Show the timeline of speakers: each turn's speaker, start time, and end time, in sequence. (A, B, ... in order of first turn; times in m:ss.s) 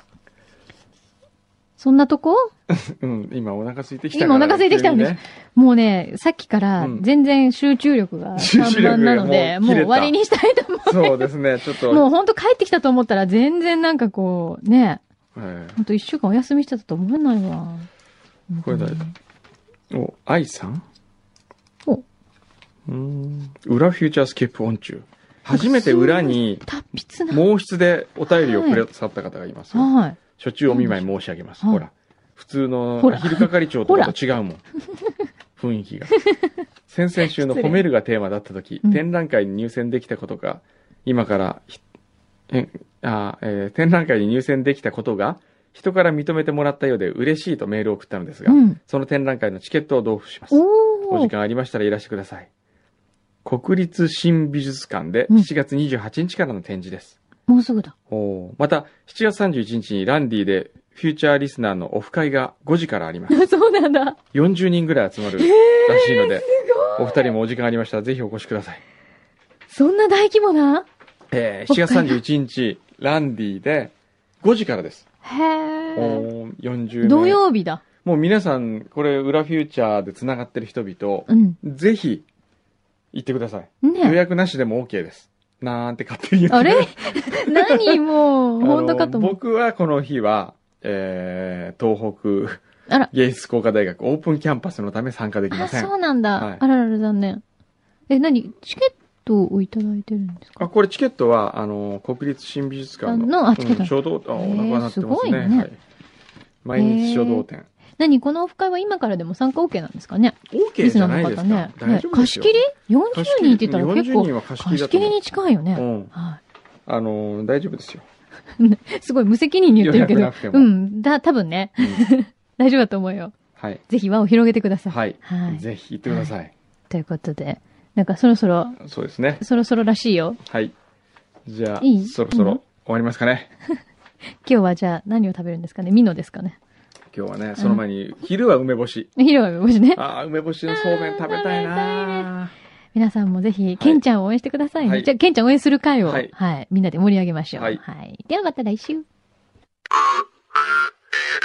0:01.8-0:02.5 A
0:02.7-0:05.2 B
0:04.1-0:11.2 A
0:06.8-0:07.0 B
0:08.4-0:10.1 B
0:10.8-0:12.1 B
0:11.8-0:15.0 A
0:15.3-0:15.8 B
0:15.8-0:17.9 A
0:18.5-0:19.1 A
0:18.6-0:19.0 B
0:19.9-0:20.8 B
0:22.9-0:26.6 B
0:25.5-0:27.4 A
0:27.3-0:34.6 B
0:28.3-0:28.8 A
0:29.7-0:31.1 A
0:33.0-0:34.1 A
0:35.6-0:36.1 B
0:36.9-0:41.8 B
0:37.4-0:37.8 A
0:42.5-0:52.5 B
0:48.5-0:48.8 A
0:50.5-0:51.3 A
0:53.4-0:57.2 B
0:57.5-0:57.9 A
0:58.1-1:03.4 B
1:03.3-1:04.2 A
1:04.3-1:08.8 B
1:05.4-1:07.3 A
1:09.7-1:10.8 A
1:11.3-1:15.0 B
1:11.7-1:12.2 A
1:15.2-1:16.3 A
1:16.0-1:17.4 B
1:17.0-1:17.8 A
1:18.0-1:22.2 B
1:21.3-1:21.6 A
1:23.1-1:28.0 B
1:23.8-1:24.2 A
1:26.5-1:29.4 A
1:28.6-1:36.6 B
1:35.5-1:37.4 A
1:38.1-1:40.6 A
1:40.6-1:45.8 B
1:43.0-1:45.7 A
1:46.6-1:47.7 B
1:46.8-1:47.4 A
1:48.0-1:56.4 A
1:50.5-1:52.6 B
1:53.1-1:55.2 B
1:55.7-1:56.1 B
1:56.8-1:58.0 B
1:58.6-2:03.3 A
1:59.8-2:00.7 B
2:01.8-2:02.0 B
2:03.9-2:06.3 A
2:04.9-2:06.5 B
2:06.9-2:08.8 A
2:08.8-2:09.4 B
2:09.4-2:10.4 A
2:10.4-2:10.7 B
2:11.4-2:13.5 B
2:11.8-2:12.6 A
2:14.4-2:16.6 A
2:17.1-2:19.1 B
2:19.2-2:20.0 A
2:19.9-2:22.5 B
2:20.7-2:22.3 A
2:22.9-2:29.0 A
2:24.8-2:25.1 B
2:26.0-2:26.3 B
2:27.6-2:27.8 B